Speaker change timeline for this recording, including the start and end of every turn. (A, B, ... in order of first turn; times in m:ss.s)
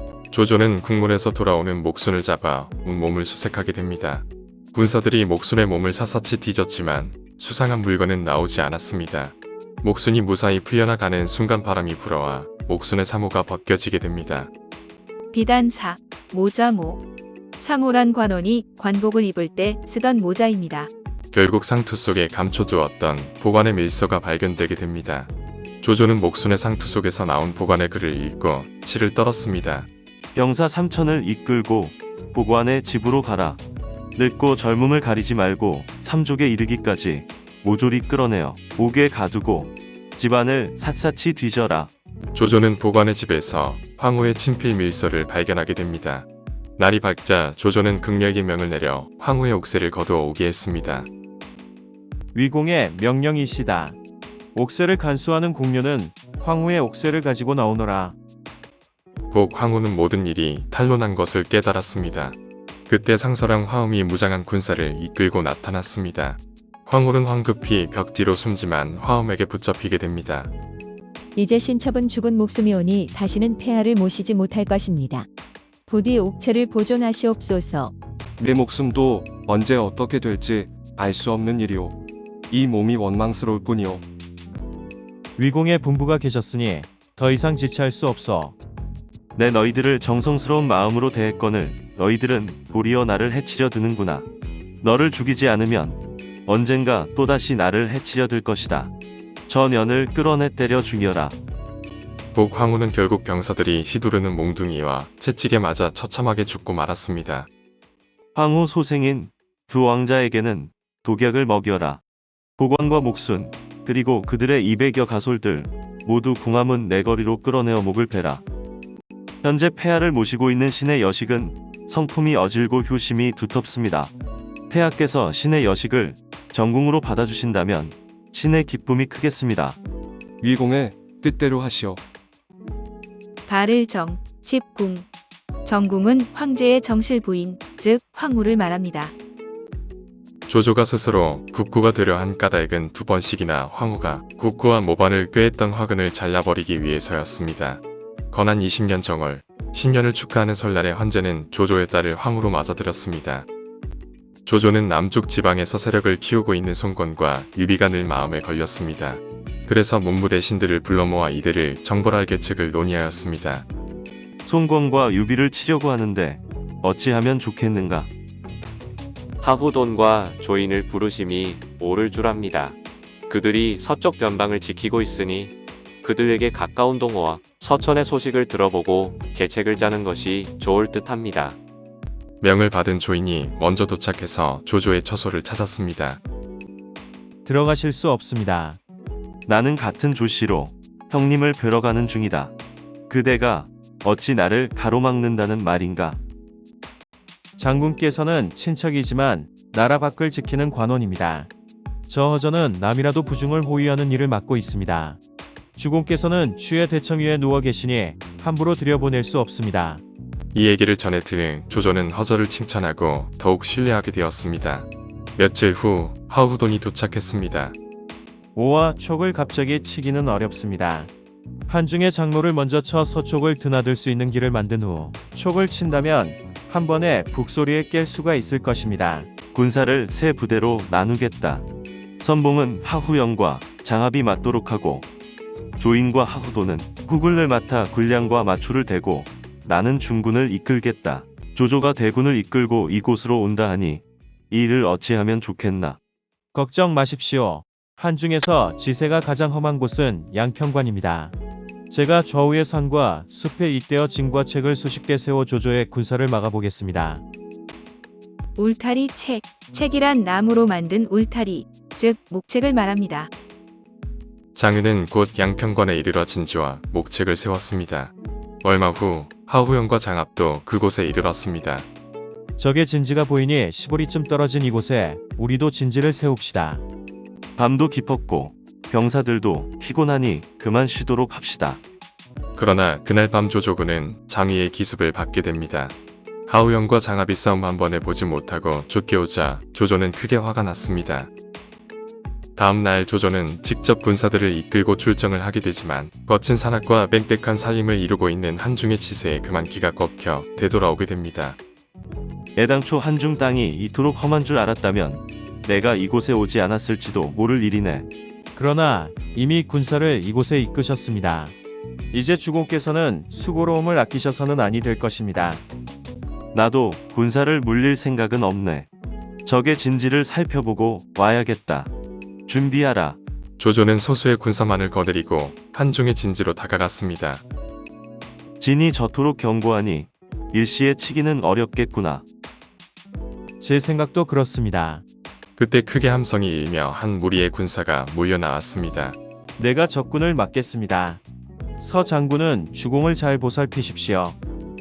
0:00.3-0:14.5 A
0:15.3-0:17.0 B
0:17.6-0:20.9 B
0:21.3-0:29.9 A
0:30.3-0:33.6 C
0:34.2-0:41.9 C
0:42.3-0:51.1 A
0:52.3-0:54.0 D
0:54.5-0:58.2 D
0:59.3-1:02.4 A
1:02.9-1:10.5 A
1:11.4-1:15.3 E
1:15.9-1:17.9 E
1:18.4-1:22.0 F
1:22.5-1:24.0 F
1:25.4-1:28.6 D
1:29.4-1:34.3 C
1:34.8-1:38.9 C
1:39.5-1:41.4 C
1:42.3-1:47.5 A
1:48.3-1:52.0 C
1:52.6-1:58.4 C
1:59.4-2:04.1 C
2:04.7-2:09.8 C
2:10.4-2:12.0 F
2:13.4-2:15.1 B
2:15.6-2:19.1 B
2:20.5-2:33.5 A
2:34.4-2:43.6 A
2:44.4-2:48.1 C
2:49.4-2:52.8 G
2:53.3-3:01.6 G
3:02.4-3:06.2 A
3:07.4-3:08.8 D
3:09.5-3:12.5 C
3:13.1-3:16.2 C
3:17.6-3:21.5 D
3:22.1-3:25.2 D
3:25.8-3:30.0 D
3:30.5-3:37.7 A
3:38.5-3:41.1 D
3:41.7-3:49.3 D
3:49.5-3:51.6 C
3:52.2-3:55.1 C
3:55.8-4:06.0 C
4:06.5-4:11.3 D
4:11.9-4:17.2 D
4:18.5-4:23.3 B
4:24.5-4:31.9 A
4:32.6-4:36.8 D
4:37.6-4:41.8 C
4:42.5-4:46.0 A
4:46.5-4:51.3 A
4:52.6-5:01.6 A
5:02.6-5:08.0 C
5:08.5-5:11.5 D
5:12.1-5:15.6 D
5:16.5-5:18.9 C
5:19.4-5:21.9 C
5:22.5-5:23.2 C
5:23.6-5:27.4 A
5:28.6-5:32.2 C
5:33.6-5:35.0 D
5:35.6-5:39.2 A
5:39.6-5:41.2 D
5:41.8-5:44.4 D